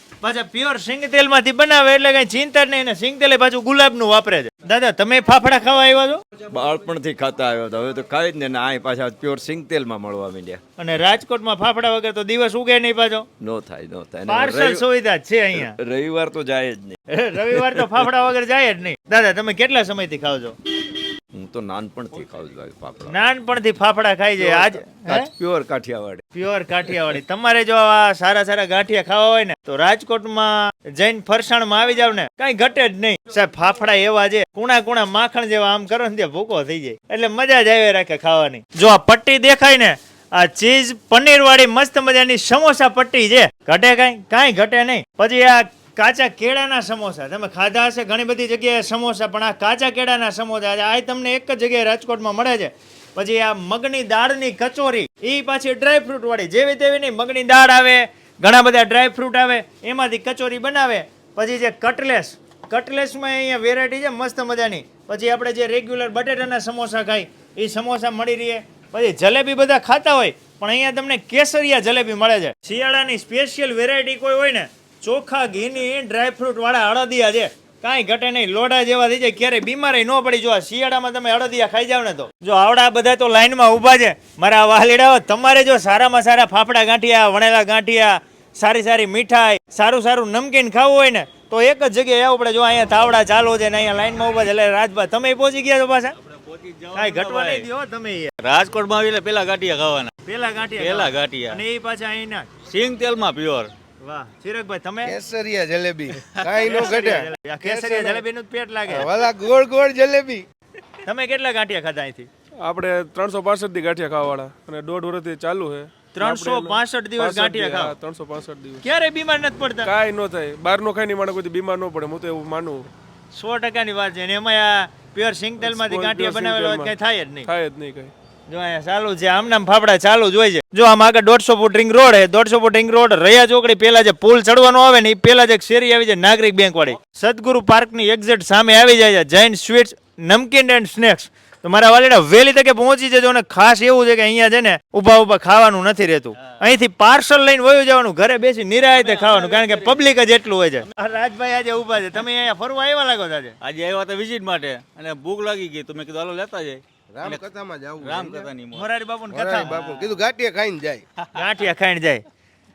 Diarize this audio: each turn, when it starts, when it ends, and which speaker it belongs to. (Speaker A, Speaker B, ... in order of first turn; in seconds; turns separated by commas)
Speaker A: 0.2-6.2, Speaker B: 6.4-10.6, Speaker A: 10.8-13.3, Speaker B: 13.4-14.8, Speaker A: 14.3-15.8, Speaker B: 15.5-17.0, Speaker A: 17.1-20.6, Speaker B: 17.5-17.9, Speaker B: 21.3-23.2, Speaker A: 23.1-25.3, Speaker B: 24.4-26.2, Speaker A: 26.3-96.1, Speaker B: 26.9-27.2, Speaker C: 96.4-97.7, Speaker A: 96.9-98.3, Speaker C: 98.4-100.1, Speaker A: 100.2-102.5, Speaker C: 100.8-101.6, Speaker C: 102.7-103.7, Speaker A: 104.0-105.1, Speaker D: 105.0-108.2, Speaker A: 106.6-109.1, Speaker D: 108.9-110.4, Speaker A: 111.0-112.3, Speaker E: 112.6-118.8, Speaker A: 116.1-117.9, Speaker A: 118.8-119.9, Speaker E: 119.8-122.9, Speaker A: 123.3-127.5, Speaker E: 125.6-126.9, Speaker E: 127.5-128.1, Speaker A: 128.5-153.6, Speaker C: 148.9-150.0, Speaker C: 153.6-157.4, Speaker D: 157.1-158.5, Speaker C: 158.0-158.9, Speaker A: 158.7-159.8, Speaker D: 159.3-161.0, Speaker C: 159.7-160.1, Speaker A: 161.4-162.2